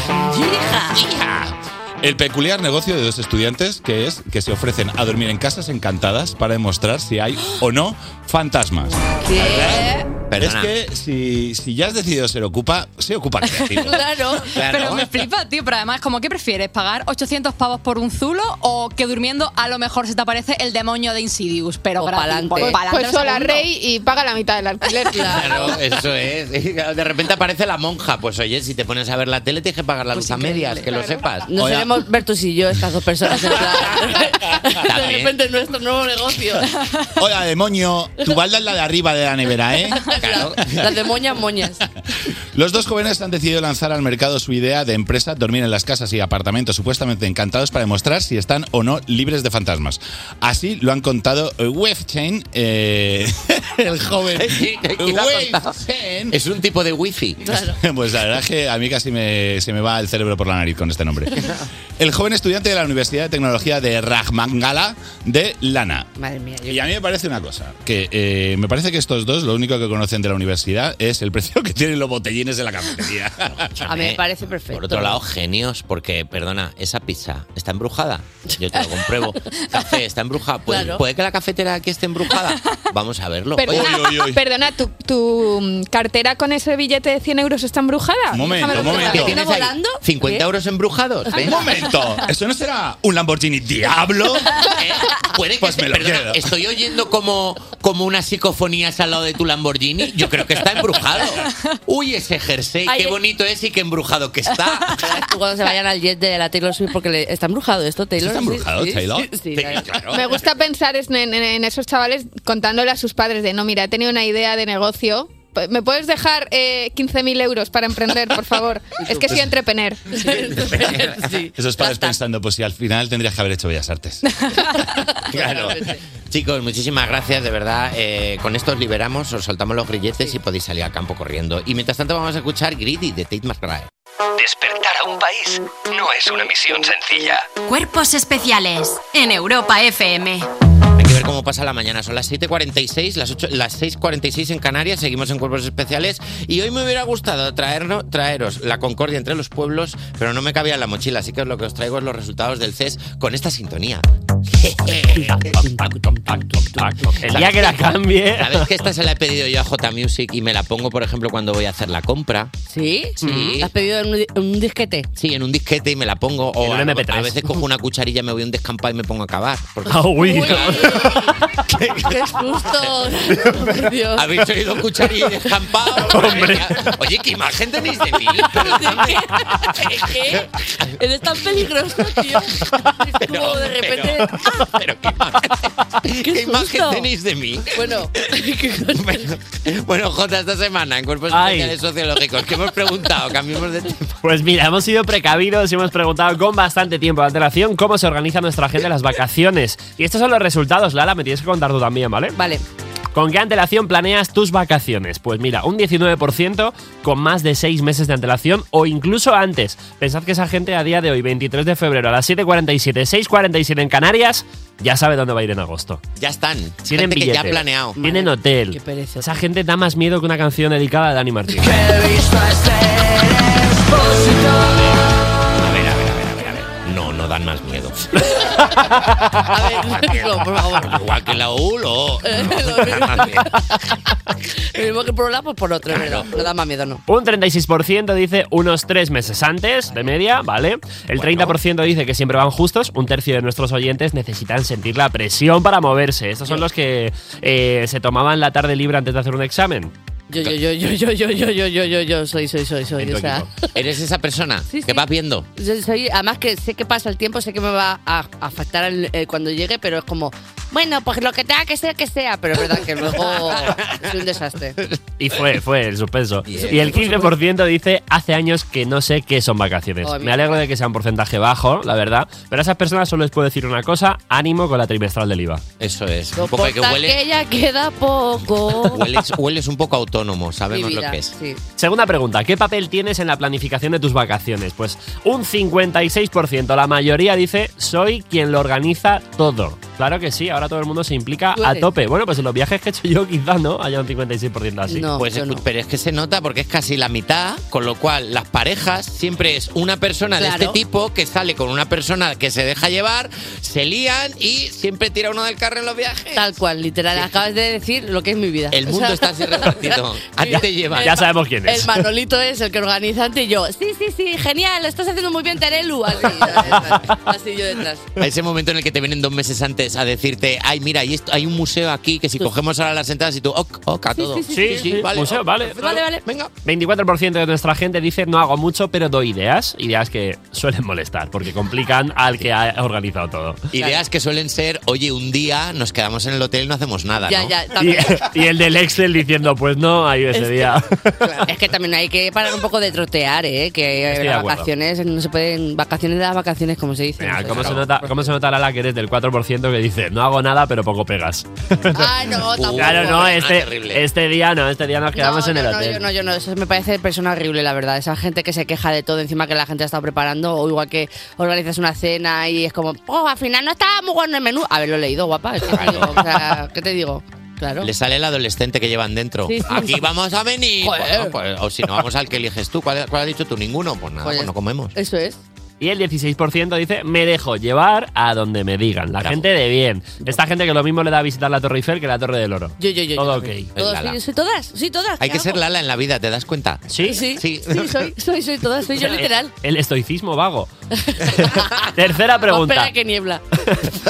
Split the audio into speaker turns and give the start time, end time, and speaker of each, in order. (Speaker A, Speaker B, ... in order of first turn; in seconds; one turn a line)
Speaker A: 0.3-1.1
Speaker B: 0.9-14.1
Speaker A: 9.1-10.0
Speaker C: 10.3-10.7
Speaker A: 13.8-14.5
Speaker C: 14.6-15.1
Speaker D: 14.6-23.6
Speaker A: 22.0-22.8
Speaker E: 22.6-25.6
Speaker A: 25.1-25.7
Speaker C: 25.2-31.5
Speaker A: 30.1-36.7
Speaker B: 31.6-31.9
Speaker C: 34.8-35.3
Speaker B: 37.2-40.1
Speaker A: 39.9-41.8
Speaker C: 40.2-40.7
Speaker B: 42.5-56.3
Speaker C: 54.4-55.7
Speaker C: 56.3-57.4
Speaker A: 57.4-57.8
Speaker B: 57.8-66.1
Speaker A: 66.2-66.8
Speaker B: 66.7-73.8
Speaker C: 73.6-84.0
Speaker A: 73.9-75.2
Speaker A: 80.7-81.0
Speaker E: 83.6-89.3
Speaker B: 83.7-84.4
Speaker B: 88.3-89.3
Speaker A: 88.7-90.4
Speaker C: 88.8-91.7
Speaker B: 91.4-94.7
Speaker C: 94.6-105.0
Speaker B: 95.6-96.4
Speaker A: 102.8-103.2
Speaker A: 104.9-109.8
Speaker B: 108.2-109.3
Speaker C: 109.5-110.3
Speaker E: 110.1-120.0
Speaker A: 120.1-122.2
Speaker C: 120.6-121.1
Speaker B: 121.5-124.2
Speaker A: 124.7-126.0
Speaker C: 125.3-133.9
Speaker F: 134.4-137.5
Speaker G: 137.6-140.5
Speaker C: 141.0-155.6
Speaker A: 155.2-157.1
Speaker H: 157.0-158.7
Speaker C: 157.2-162.5
Speaker A: 162.7-165.1
Speaker C: 163.2-163.7
Speaker C: 165.2-171.1
Speaker H: 166.6-167.4
Speaker H: 169.9-171.1
Speaker A: 170.2-171.3
Speaker A: 171.8-174.3
Speaker C: 174.1-179.2
Speaker H: 176.1-176.7
Speaker A: 178.4-184.5
Speaker C: 179.7-180.4
Speaker C: 183.2-187.8
Speaker A: 186.2-187.1
Speaker A: 187.7-189.3
Speaker C: 188.9-194.2
Speaker H: 191.3-191.7
Speaker H: 194.2-202.4
Speaker A: 202.3-202.6
Speaker H: 203.1-216.0
Speaker C: 216.2-218.0
Speaker H: 216.9-221.8
Speaker A: 218.0-219.3
Speaker A: 221.6-223.4
Speaker C: 225.6-228.2
Speaker A: 228.2-231.0
Speaker C: 229.8-233.5
Speaker A: 232.2-233.6
Speaker A: 234.6-237.0
Speaker C: 235.9-236.3
Speaker H: 237.1-249.9
Speaker A: 239.9-240.1
Speaker C: 241.1-241.6
Speaker A: 250.3-253.7
Speaker H: 253.0-253.4
Speaker C: 253.7-255.5
Speaker A: 254.7-255.0
Speaker A: 255.6-264.8
Speaker H: 265.2-275.6
Speaker C: 266.4-267.1
Speaker A: 266.5-267.3
Speaker A: 270.0-270.6
Speaker C: 275.8-277.2
Speaker A: 276.4-279.0
Speaker C: 278.8-281.3
Speaker A: 280.7-281.6
Speaker H: 281.8-295.1
Speaker A: 291.5-291.9
Speaker A: 294.9-295.6
Speaker C: 295.1-306.5
Speaker A: 300.4-300.8
Speaker A: 306.3-309.9
Speaker C: 308.7-311.2
Speaker A: 310.4-318.1
Speaker H: 311.0-311.9
Speaker H: 316.7-317.0
Speaker C: 318.2-326.5
Speaker A: 324.1-326.2
Speaker H: 324.5-325.8
Speaker H: 326.6-333.6
Speaker C: 333.7-337.5
Speaker A: 337.3-338.3
Speaker H: 337.8-341.1
Speaker A: 340.3-348.3
Speaker H: 344.1-344.7
Speaker H: 347.2-352.1
Speaker C: 347.5-347.8
Speaker A: 351.9-353.4
Speaker C: 352.4-354.0
Speaker H: 352.7-356.0
Speaker A: 355.1-367.9
Speaker C: 365.7-366.2
Speaker C: 367.8-374.9
Speaker A: 369.4-370.1
Speaker A: 370.8-371.3
Speaker A: 374.2-375.4
Speaker H: 375.8-383.7
Speaker C: 379.2-379.5
Speaker A: 382.8-385.6
Speaker C: 383.7-384.2
Speaker C: 385.2-388.1
Speaker H: 386.9-387.2
Speaker A: 387.0-389.5
Speaker H: 389.0-390.7
Speaker A: 390.9-391.9
Speaker H: 391.3-392.9
Speaker A: 392.4-393.4